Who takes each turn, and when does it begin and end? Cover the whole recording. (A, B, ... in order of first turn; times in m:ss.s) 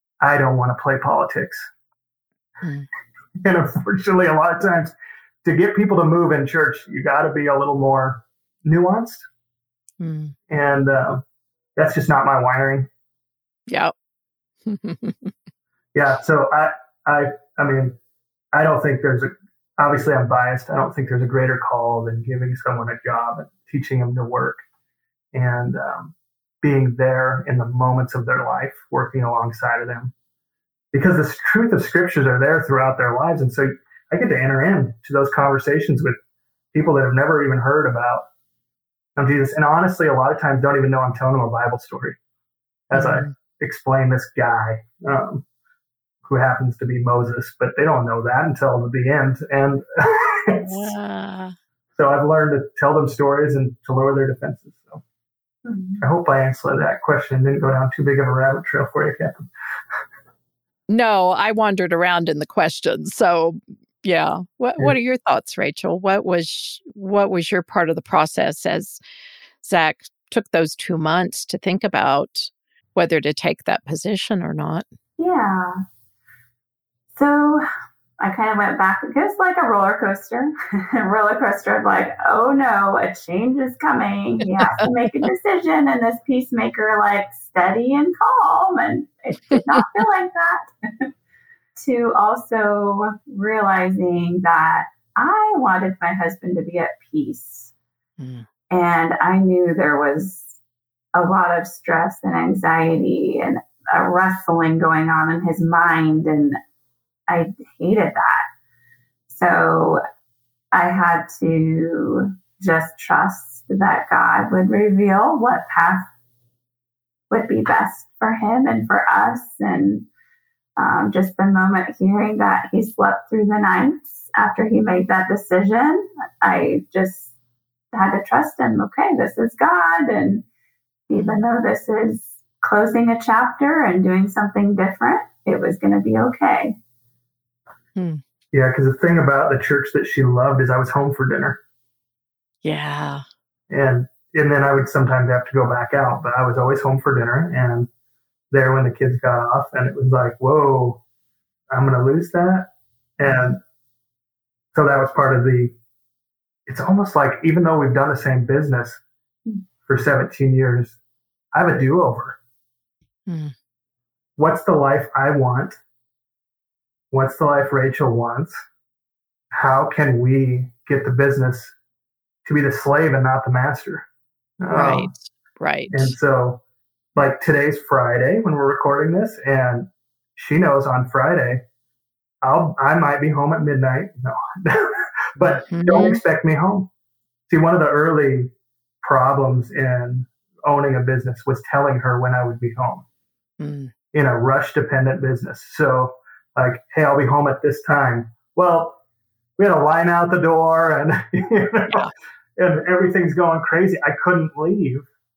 0:00.2-0:01.7 A
0:03.4-0:09.2 A
0:10.0-0:10.3 B
0:10.5-0:11.2 A
0:11.8-0:12.9 A
0:13.7-0:13.9 B
0:14.6-0:15.3 B
0:15.9-0:18.0 A
0:18.5-0:24.6 A
0:25.3-0:30.1 A
0:30.9-0:36.2 A
0:36.7-0:38.2 A
0:39.2-0:42.2 A
0:42.9-0:45.4 A
0:42.9-0:43.3 B
0:46.2-0:50.9 A
0:50.6-0:51.5 B
0:52.0-0:55.0 A
0:55.6-0:56.0 C
0:56.0-0:59.5 A
1:00.9-1:09.0 B
1:09.6-1:14.8 B
1:15.2-1:15.8 C
1:17.1-1:17.6 C
1:18.2-1:31.1 C
1:29.5-1:29.8 B
1:31.8-1:37.7 C
1:38.2-1:38.4 B
1:38.7-1:40.5 C
1:41.1-1:46.6 C
1:47.3-1:48.4 C
1:49.3-1:50.0 C
1:50.7-1:56.1 C
1:57.3-2:00.0 C
2:00.8-2:07.3 C
2:07.9-2:10.4 C
2:11.1-2:16.7 C
2:11.1-2:11.4 B
2:18.0-2:18.2 B
2:18.5-2:21.6 A
2:22.6-2:23.2 B
2:23.7-2:27.9 A
2:28.5-2:31.0 A
2:31.7-2:33.6 A
2:33.3-2:33.5 B
2:34.7-2:35.7 A
2:36.7-2:39.0 A
2:39.9-2:41.0 A
2:41.5-2:42.4 A
2:43.3-2:43.5 B
2:44.4-2:45.8 A
2:47.1-2:48.5 A
2:49.5-2:51.7 A
2:52.4-2:54.0 A
2:54.6-2:55.1 A
2:54.7-2:56.1 B
2:55.9-2:56.6 A
2:57.2-3:01.6 A
3:02.4-3:06.9 A
3:05.4-3:06.2 B
3:07.5-3:13.0 A
3:13.6-3:13.9 B
3:14.1-3:19.0 A
3:19.6-3:25.1 A